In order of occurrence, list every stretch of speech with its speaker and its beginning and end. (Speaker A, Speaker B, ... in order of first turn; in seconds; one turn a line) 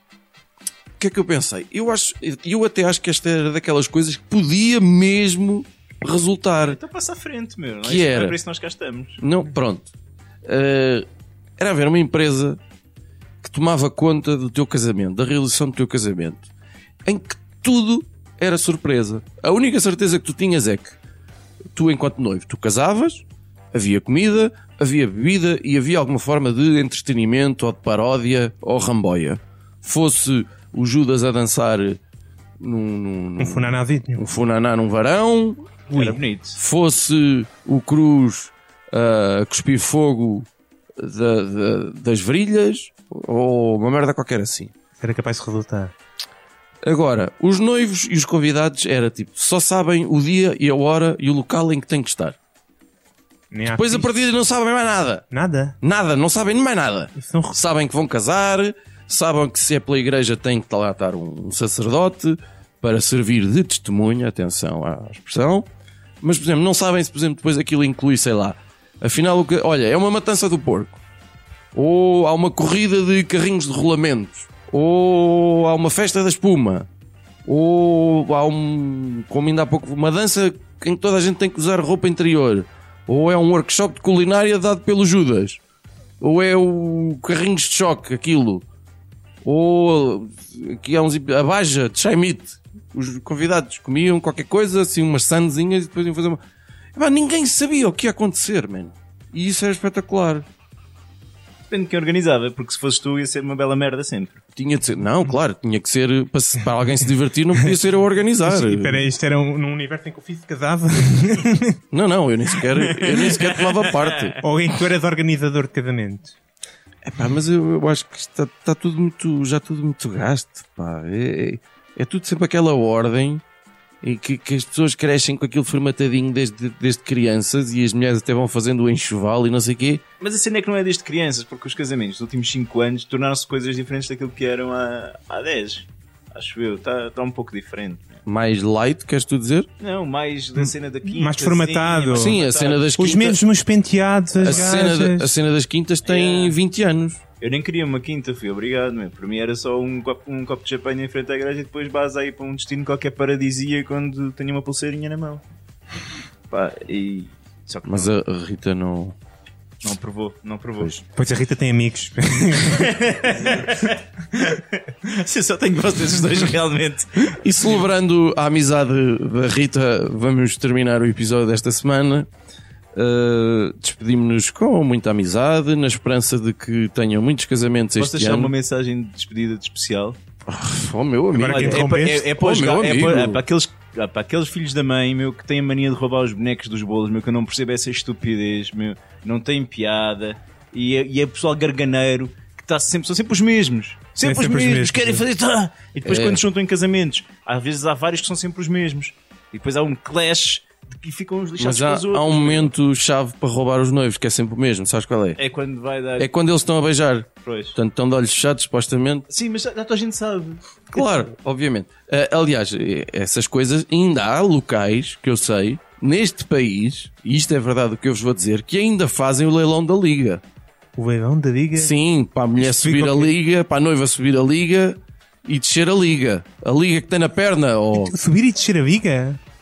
Speaker A: 1.0-6.8
Speaker B: 6.7-9.2
Speaker A: 7.8-8.4
Speaker A: 9.2-9.9
Speaker A: 10.4-11.1
Speaker A: 11.6-12.6
Speaker A: 13.4-16.5
Speaker A: 17.1-21.0
Speaker A: 21.7-32.0
Speaker A: 32.6-35.7
Speaker C: 33.4-34.3
Speaker C: 35.9-36.2
Speaker B: 35.9-36.6
Speaker A: 36.5-44.7
Speaker C: 45.0-45.9
Speaker A: 46.8-52.4
Speaker C: 53.5-54.1
Speaker A: 53.7-55.2
Speaker C: 55.3-55.8
Speaker A: 55.8-65.7
Speaker C: 57.2-57.6
Speaker A: 66.2-71.0
Speaker A: 71.7-76.9
Speaker A: 77.5-85.6
Speaker A: 86.2-88.7
Speaker A: 89.4-96.4
Speaker A: 97.0-100.5
Speaker B: 101.7-104.4
Speaker A: 104.6-109.1
Speaker C: 108.4-111.8
Speaker A: 111.9-114.4
Speaker B: 112.8-114.4
Speaker C: 114.4-116.4
Speaker A: 117.0-123.4
Speaker A: 124.0-130.0
Speaker B: 130.2-138.2
Speaker A: 138.3-139.7
Speaker B: 139.8-143.3
Speaker C: 140.6-142.4
Speaker A: 142.1-143.4
Speaker C: 143.0-145.3
Speaker A: 144.4-147.2
Speaker B: 144.4-144.8
Speaker B: 146.1-146.6
Speaker B: 147.4-155.4
Speaker B: 156.5-158.1
Speaker A: 157.9-159.2
Speaker B: 159.8-161.0
Speaker C: 161.2-163.0
Speaker B: 162.6-167.4
Speaker A: 167.3-172.3
Speaker A: 172.9-178.5
Speaker B: 178.0-180.2
Speaker A: 180.5-183.4
Speaker C: 181.3-182.3
Speaker B: 181.4-202.7
Speaker C: 194.2-195.2
Speaker A: 196.1-196.4
Speaker A: 201.6-205.4
Speaker B: 205.4-206.3
Speaker A: 206.2-209.2
Speaker B: 207.4-207.8
Speaker B: 209.3-211.2
Speaker A: 210.9-220.4
Speaker C: 221.0-221.9
Speaker A: 221.8-228.1
Speaker C: 222.6-223.4
Speaker C: 227.9-229.4